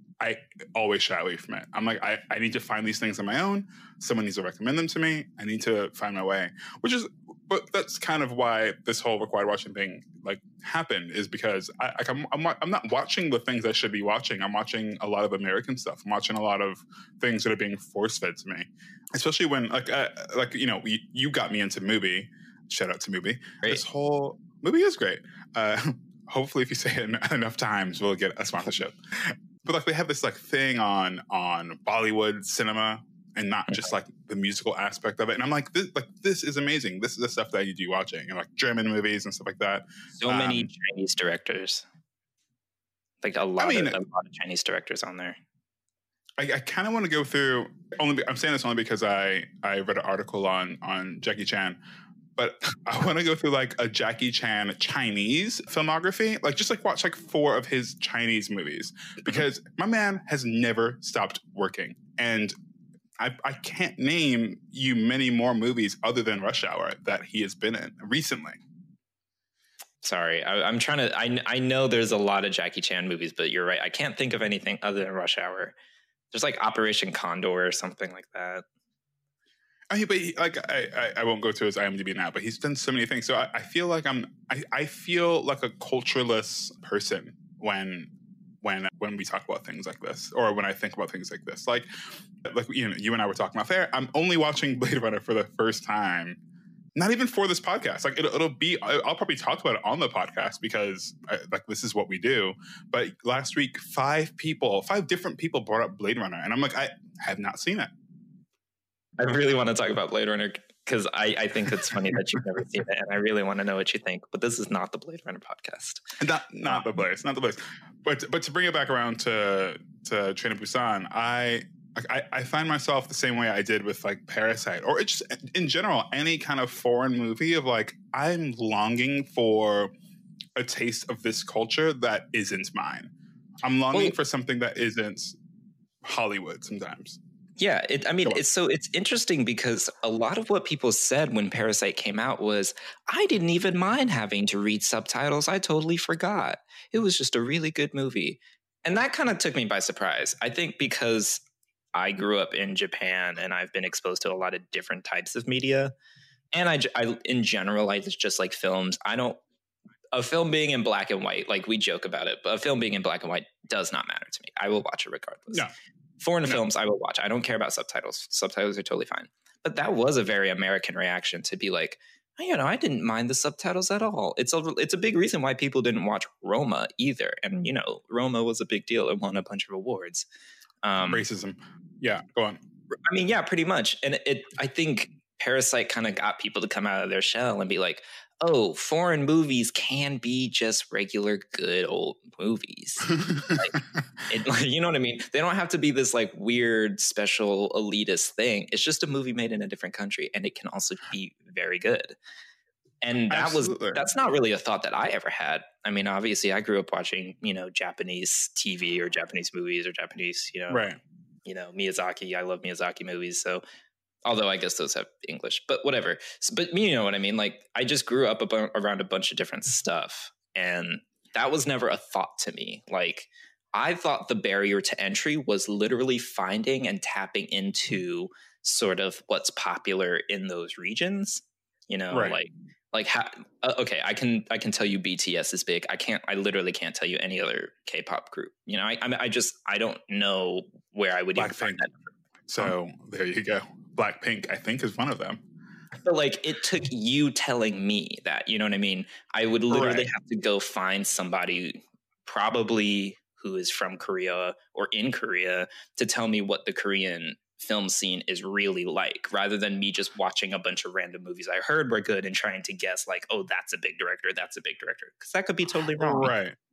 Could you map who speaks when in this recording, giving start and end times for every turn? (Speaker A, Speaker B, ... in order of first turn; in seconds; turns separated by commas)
Speaker A: 0.2-40.7, Speaker B: 40.2-41.9, Speaker B: 43.2-45.4, Speaker A: 43.6-44.0, Speaker A: 46.4-51.8, Speaker A: 52.4-62.5, Speaker A: 63.2-68.6, Speaker B: 70.0-75.7, Speaker B: 76.3-78.6, Speaker A: 79.9-91.9, Speaker A: 92.4-96.4, Speaker A: 97.0-107.9, Speaker B: 109.2-116.0, Speaker A: 116.2-129.9, Speaker A: 130.6-133.1, Speaker A: 133.6-135.3, Speaker B: 133.9-134.2, Speaker A: 136.0-137.2, Speaker B: 137.6-151.4, Speaker B: 151.9-155.9, Speaker B: 156.5-159.4, Speaker B: 160.1-165.7, Speaker B: 166.2-180.3, Speaker B: 180.8-181.2, Speaker A: 181.0-182.6, Speaker B: 183.1-202.2, Speaker A: 193.2-193.8, Speaker B: 203.0-210.8, Speaker A: 203.3-204.0, Speaker A: 210.7-211.0, Speaker B: 211.4-213.6, Speaker B: 214.2-242.0, Speaker A: 232.1-232.4, Speaker A: 241.3-241.8, Speaker A: 242.5-245.4, Speaker B: 246.0-266.3, Speaker A: 249.7-250.1, Speaker A: 266.0-266.6